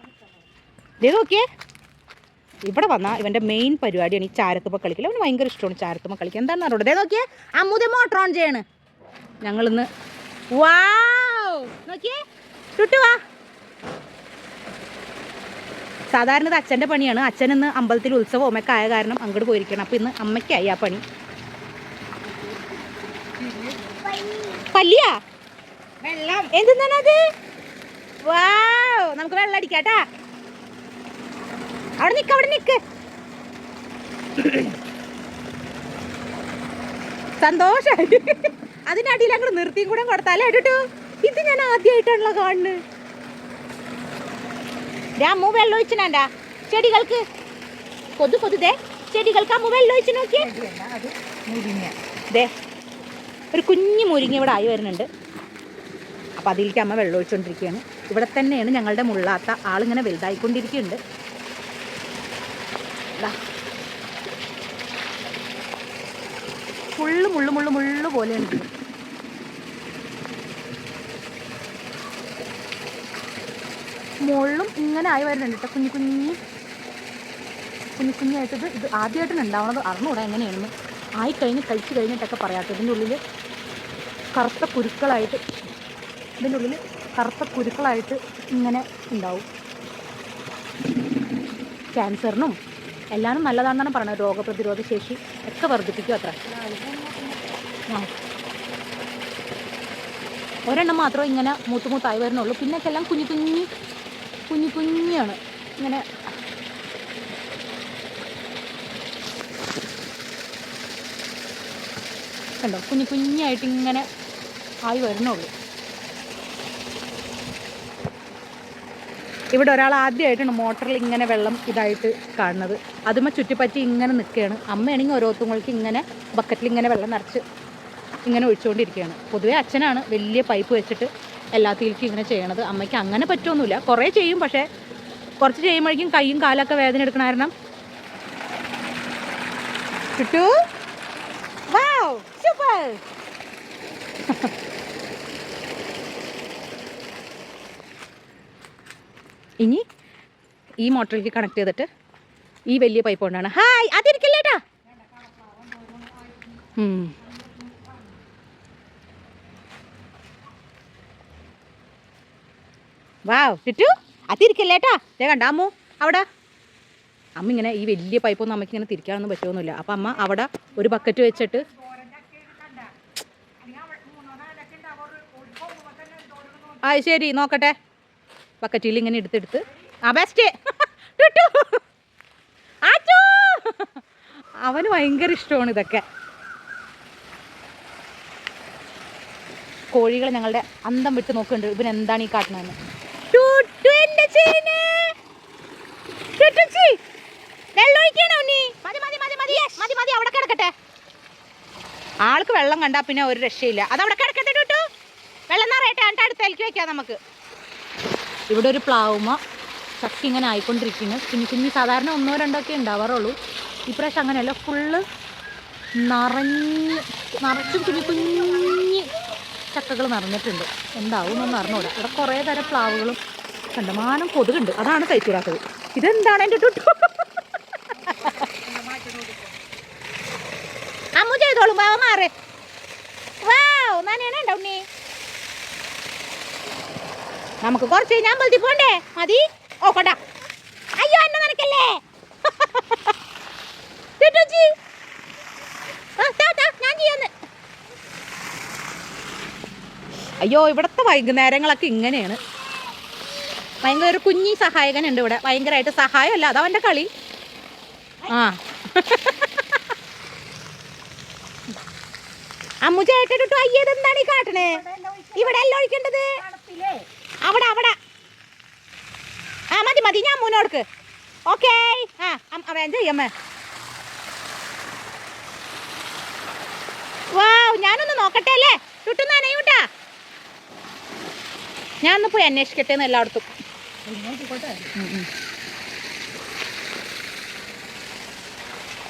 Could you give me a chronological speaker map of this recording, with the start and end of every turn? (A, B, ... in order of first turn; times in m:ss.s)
0:01.0-0:01.4 A
0:02.6-0:08.6 A
0:09.4-0:09.9 A
0:10.5-0:12.2 A
0:12.8-0:13.2 A
0:16.1-0:21.0 A
0:24.7-0:25.2 A
0:26.0-0:26.5 B
0:26.3-0:27.2 A
0:28.3-0:30.0 A
0:32.0-0:32.8 A
0:34.4-0:34.7 A
0:37.4-0:42.8 A
0:45.2-0:47.2 A
0:48.2-0:50.5 A
0:50.4-0:51.9 B
0:53.5-0:55.1 A
0:56.4-1:01.0 A
1:07.0-1:08.7 A
1:14.2-1:16.4 A
1:18.0-1:23.2 A
1:24.3-1:25.4 A
1:26.4-1:29.4 A
1:31.9-1:32.6 A
1:33.1-1:36.4 A
1:36.5-1:37.4 B
1:40.6-1:43.7 A
1:44.5-1:46.0 A
1:52.6-1:54.1 A
1:54.9-1:55.5 A
1:59.5-2:07.4 A
2:08.2-2:14.6 A
2:15.4-2:17.5 A
2:20.2-2:20.5 A
2:21.7-2:23.0 A
2:30.8-2:31.9 A
2:32.7-2:34.6 A
2:35.4-2:36.3 B
2:36.8-2:37.2 A
2:43.2-2:46.2 A
2:47.4-2:51.7 A
2:50.8-2:52.9 B
2:53.6-2:56.9 B
2:56.8-2:57.8 A
2:58.6-3:01.8 A
3:02.8-3:03.9 A
3:04.6-3:06.0 A
3:09.9-3:12.8 A
3:13.3-3:15.1 A
3:16.4-3:17.0 A
3:17.8-3:20.7 A
3:22.2-3:24.8 A
3:25.5-3:27.2 A
3:28.5-3:29.4 A
3:30.0-3:33.4 A
3:33.9-3:35.0 A
3:36.0-3:39.1 A
3:39.7-3:43.2 A
3:43.7-3:47.3 A
3:47.9-3:48.3 A
3:47.9-3:49.6 B
3:51.2-3:52.3 A
3:53.4-3:54.8 A
3:57.6-4:00.2 A
4:01.0-4:03.0 A
4:04.2-4:04.7 A
4:06.2-4:07.3 A
4:10.4-4:12.4 A
4:13.8-4:17.1 A
4:18.3-4:19.8 A
4:22.8-4:24.8 A
4:24.5-4:25.7 B
4:25.4-4:26.4 A
4:26.4-4:27.1 B
4:27.4-4:28.0 A
4:29.7-4:30.8 A
4:31.5-4:33.3 A
4:37.3-4:39.8 A
4:42.0-4:43.4 A
4:44.0-4:45.0 B
4:44.9-4:45.3 A